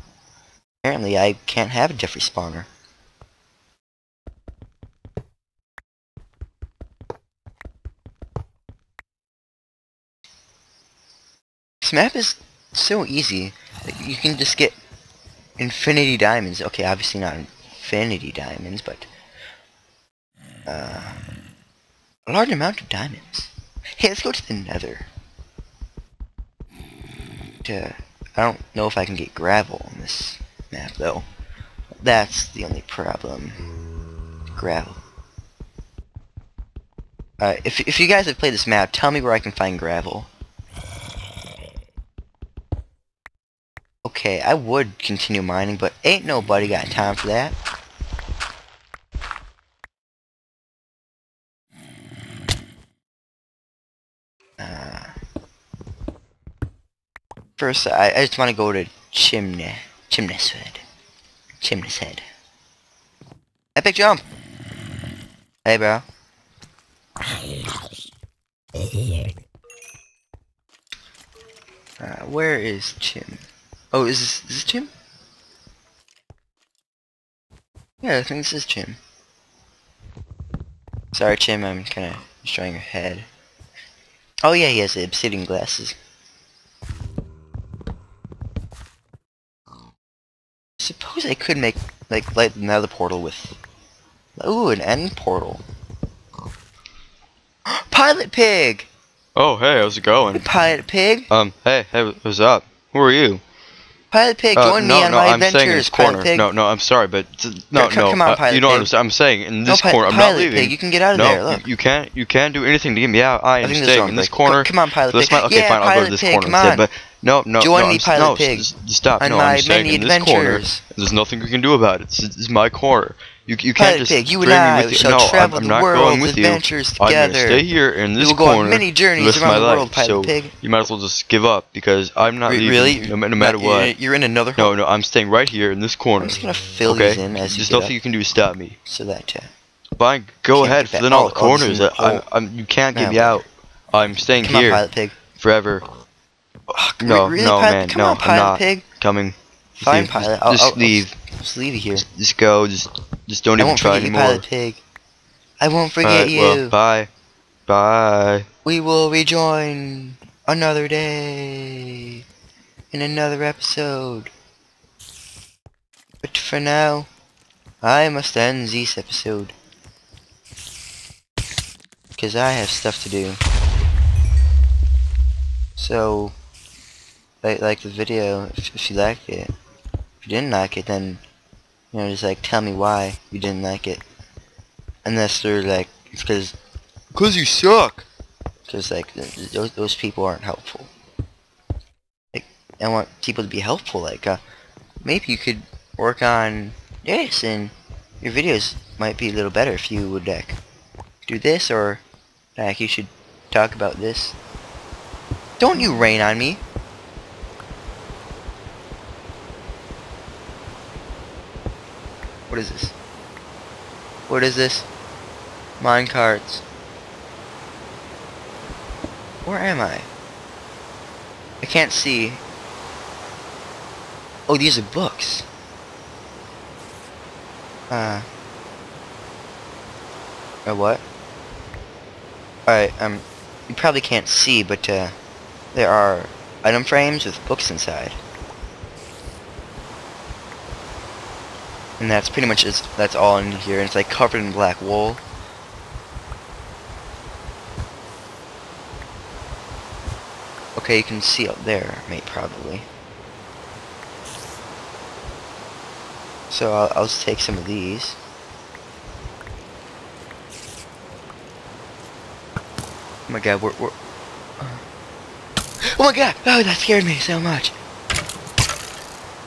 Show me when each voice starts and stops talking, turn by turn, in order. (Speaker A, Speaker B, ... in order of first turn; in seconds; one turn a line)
Speaker A: 0.8-2.7
Speaker A: 11.8-14.8
Speaker A: 15.6-19.1
Speaker A: 20.7-21.2
Speaker A: 22.3-25.1
Speaker A: 27.6-31.3
Speaker A: 32.0-33.6
Speaker A: 34.5-35.0
Speaker A: 37.4-40.3
Speaker A: 44.0-47.6
Speaker A: 54.6-55.1
Speaker A: 57.6-60.8
Speaker A: 61.6-62.2
Speaker A: 63.8-64.2
Speaker A: 65.7-66.0
Speaker A: 72.0-74.9
Speaker A: 78.0-79.0
Speaker A: 81.1-83.3
Speaker A: 84.4-86.0
Speaker A: 90.8-93.6
Speaker A: 94.4-95.6
Speaker A: 97.7-98.9
Speaker B: 99.4-100.5
Speaker A: 100.3-101.3
Speaker B: 101.3-103.4
Speaker A: 104.1-106.5
Speaker B: 104.5-133.9
Speaker A: 107.8-108.9
Speaker A: 109.7-111.6
Speaker A: 113.6-116.8
Speaker A: 117.6-118.7
Speaker A: 119.2-120.8
Speaker A: 123.8-127.7
Speaker A: 128.2-130.6
Speaker A: 132.5-134.8
Speaker B: 134.6-138.8
Speaker A: 136.2-137.9
Speaker A: 138.8-139.5
Speaker B: 140.0-145.8
Speaker A: 140.6-142.2
Speaker A: 142.9-143.4
Speaker A: 144.4-145.2
Speaker A: 146.7-148.9
Speaker B: 147.0-151.1
Speaker A: 149.8-152.1
Speaker B: 151.9-154.5
Speaker A: 153.6-154.8
Speaker A: 155.6-156.8
Speaker B: 156.0-157.1
Speaker B: 157.7-158.5
Speaker A: 158.7-162.2
Speaker A: 162.9-164.3
Speaker A: 166.2-167.1
Speaker A: 167.8-169.6
Speaker A: 172.2-173.4
Speaker A: 175.8-176.3
Speaker A: 177.4-179.5
Speaker A: 180.2-181.2
Speaker A: 181.9-184.0
Speaker A: 185.1-186.6
Speaker A: 187.1-188.1
Speaker A: 188.7-190.9
Speaker A: 192.3-194.4
Speaker A: 195.0-200.6
Speaker A: 201.3-202.0
Speaker A: 202.6-204.4
Speaker A: 205.6-206.6
Speaker A: 212.5-212.9
Speaker A: 214.3-214.9
Speaker A: 215.8-216.6
Speaker A: 219.5-220.1
Speaker A: 221.6-222.4
Speaker A: 224.5-225.5
Speaker A: 227.9-228.3
Speaker A: 230.7-231.0
Speaker A: 232.7-235.2
Speaker A: 235.7-238.2
Speaker A: 242.0-245.2
Speaker A: 250.8-252.9
Speaker A: 256.5-258.2
Speaker A: 263.3-263.9
Speaker A: 265.9-267.8